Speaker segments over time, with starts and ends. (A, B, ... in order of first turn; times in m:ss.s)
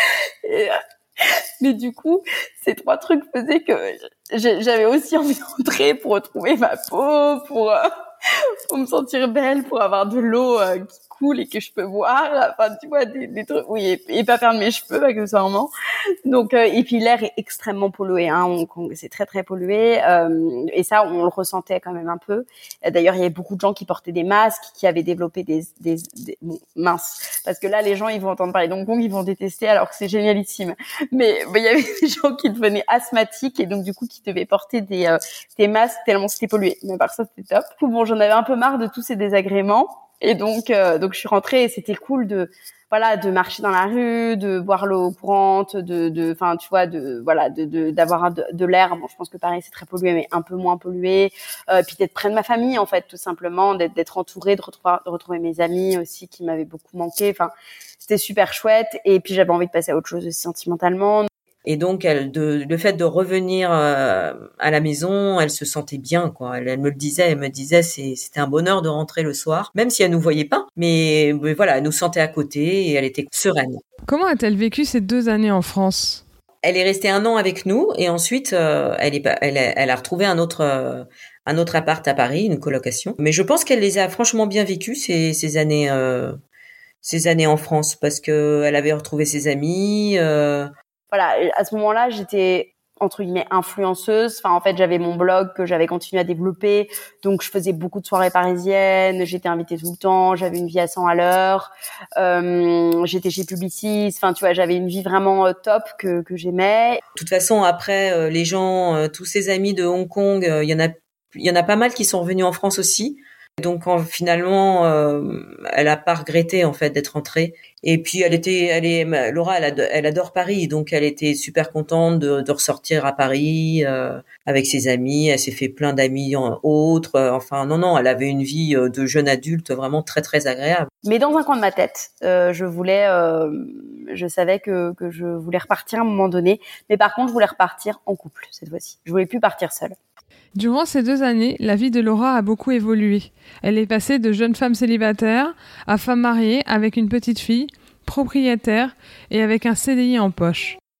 0:00.4-0:15.7 A
0:16.2-1:01.3 A
1:01.6-1:13.8 B
1:14.0-1:16.2 C
1:16.6-1:26.4 B
1:27.0-1:30.7 B
1:31.1-1:47.0 A
1:47.2-2:10.9 B
2:11.0-2:20.0 A
2:20.6-2:30.8 C